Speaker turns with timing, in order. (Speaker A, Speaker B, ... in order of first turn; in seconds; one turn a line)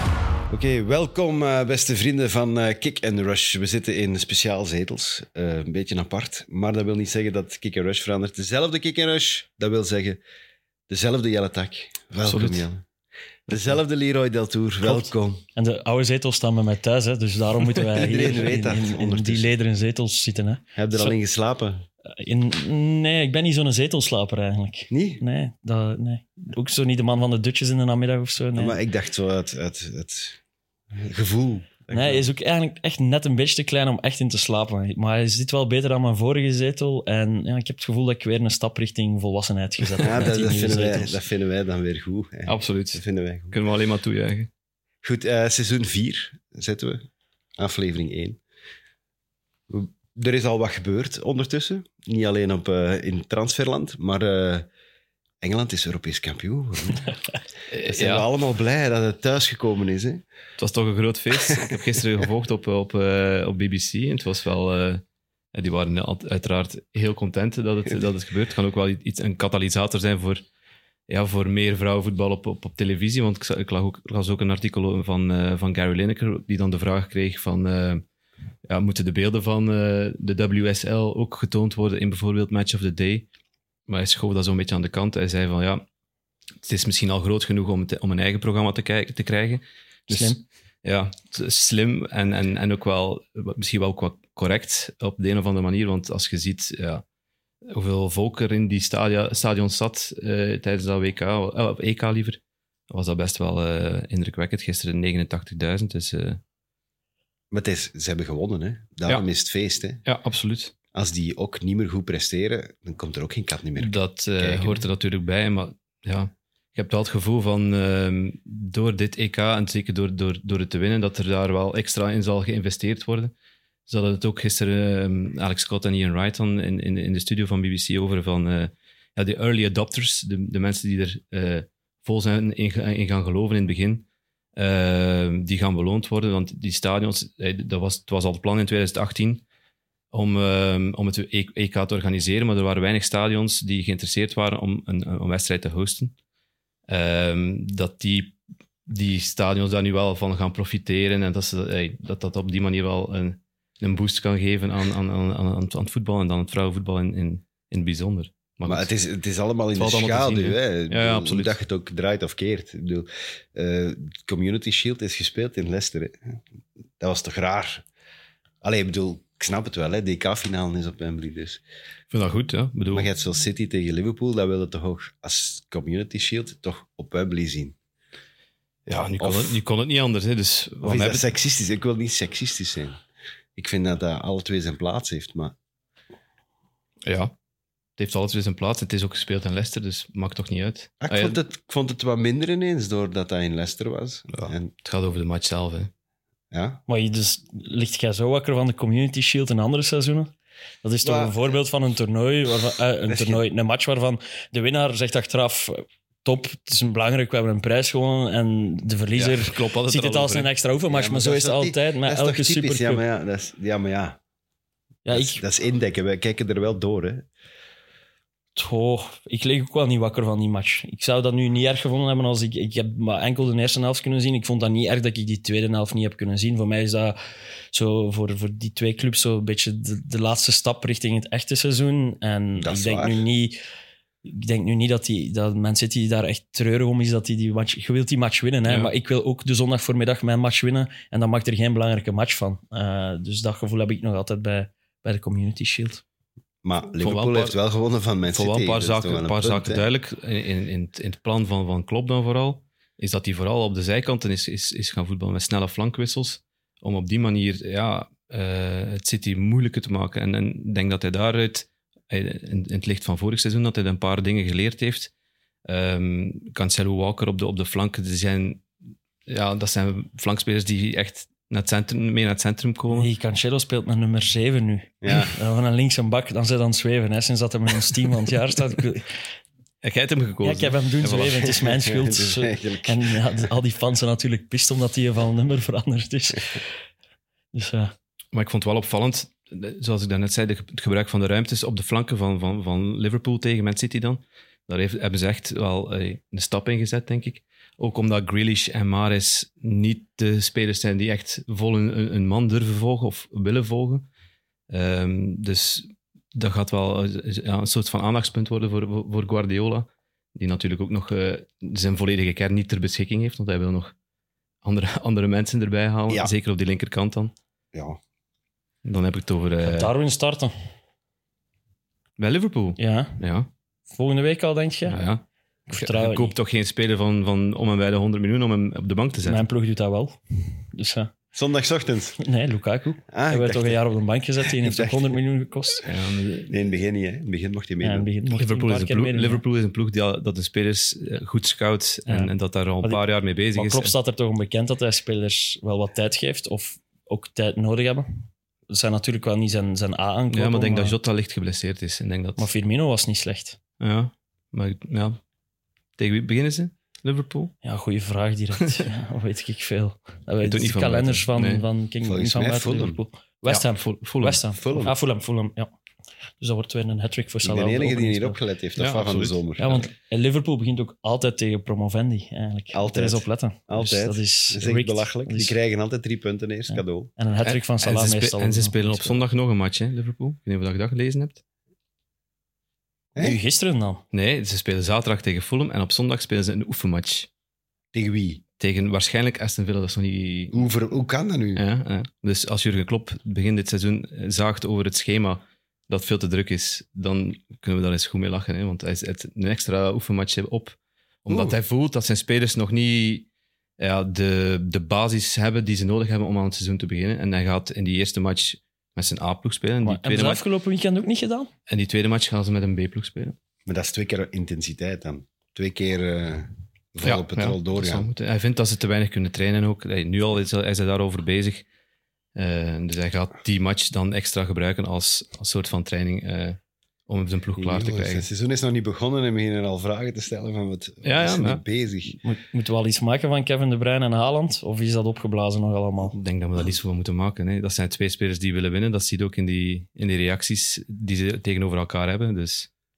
Speaker A: 0.5-10.2
Speaker A: 10.9-12.8
Speaker B: 12.2-12.7
Speaker A: 13.5-15.4
Speaker C: 15.6-21.1
Speaker A: 17.9-19.5
Speaker A: 20.8-21.9
Speaker C: 22.1-28.8
Speaker A: 24.9-25.2
Speaker A: 28.6-30.4
Speaker A: 30.9-32.3
Speaker C: 31.9-41.2
Speaker A: 40.0-43.6
Speaker B: 42.5-44.5
Speaker A: 45.0-47.1
Speaker A: 47.6-48.4
Speaker A: 49.7-54.7
Speaker A: 55.4-57.1
Speaker B: 57.7-58.3
Speaker A: 57.9-60.2
Speaker B: 60.6-65.0
Speaker A: 61.5-61.8
Speaker B: 65.5-70.4
Speaker B: 71.1-78.0
Speaker B: 78.7-83.3
Speaker B: 83.9-85.8
Speaker B: 86.6-97.0
Speaker C: 90.1-90.4
Speaker B: 97.7-106.4
Speaker A: 107.5-110.0
Speaker B: 110.0-110.7
Speaker A: 110.9-114.9
Speaker B: 113.8-123.3
Speaker B: 123.9-139.4
Speaker B: 140.1-146.1
Speaker B: 146.9-158.9
Speaker A: 158.7-166.4
Speaker B: 159.8-161.6
Speaker A: 167.0-167.8
Speaker A: 168.6-171.6
Speaker B: 172.1-173.1
Speaker A: 172.9-177.8
Speaker B: 178.9-181.3
Speaker A: 179.2-179.6
Speaker A: 180.8-183.0
Speaker A: 183.6-185.6
Speaker B: 187.1-187.3
Speaker B: 188.0-191.4
Speaker A: 191.0-194.7
Speaker B: 194.3-195.9
Speaker A: 196.5-196.8
Speaker C: 196.9-213.0
Speaker A: 201.0-201.5
Speaker A: 203.1-203.4
Speaker B: 209.2-210.5
Speaker A: 210.9-214.2
Speaker C: 215.1-215.4
Speaker A: 215.1-217.3
Speaker C: 218.6-227.2
Speaker C: 227.7-233.6
Speaker A: 232.6-233.2
Speaker C: 234.2-246.0
Speaker B: 238.7-238.9
Speaker A: 246.6-249.8
Speaker B: 247.0-247.6
Speaker B: 248.3-265.1
Speaker B: 265.7-268.7
Speaker B: 269.3-273.1
Speaker C: 272.9-279.1
Speaker A: 275.0-275.3
Speaker B: 279.8-281.5
Speaker C: 280.4-286.7
Speaker A: 281.4-283.4
Speaker C: 287.5-287.9
Speaker B: 288.3-304.1
Speaker B: 304.7-313.9
Speaker B: 314.6-317.3
Speaker A: 317.7-318.0
Speaker B: 318.9-319.9
Speaker C: 319.6-320.5
Speaker B: 322.2-323.5
Speaker C: 322.8-323.2
Speaker C: 323.9-325.0
Speaker B: 324.9-329.4
Speaker C: 325.7-326.3
Speaker C: 329.2-331.1
Speaker A: 331.3-332.2
Speaker C: 332.2-335.9
Speaker A: 333.1-333.8
Speaker A: 334.4-335.2
Speaker B: 335.8-336.7
Speaker A: 336.5-338.1
Speaker C: 337.8-339.4
Speaker B: 338.4-343.9
Speaker C: 343.6-351.0
Speaker B: 350.3-352.5
Speaker C: 352.4-353.6
Speaker B: 353.8-355.2
Speaker B: 356.0-357.5
Speaker C: 357.6-365.7
Speaker B: 360.4-361.6
Speaker A: 362.0-363.0
Speaker B: 363.5-364.4
Speaker A: 364.6-364.9
Speaker C: 366.4-368.4
Speaker A: 367.4-369.9
Speaker B: 368.8-369.4
Speaker C: 369.6-375.6
Speaker A: 372.7-377.1
Speaker C: 376.7-379.2
Speaker B: 377.4-381.4
Speaker C: 383.2-384.0
Speaker B: 384.1-387.3
Speaker A: 387.9-388.4
Speaker B: 388.6-390.7
Speaker A: 390.5-391.6
Speaker B: 391.6-403.3
Speaker A: 401.3-401.6
Speaker B: 403.8-410.4
Speaker C: 409.8-411.5
Speaker B: 411.7-413.4
Speaker A: 413.7-418.1
Speaker B: 417.0-421.6
Speaker B: 422.4-428.3
Speaker A: 427.6-432.2
Speaker B: 431.0-431.6
Speaker C: 432.2-436.1
Speaker B: 436.1-442.7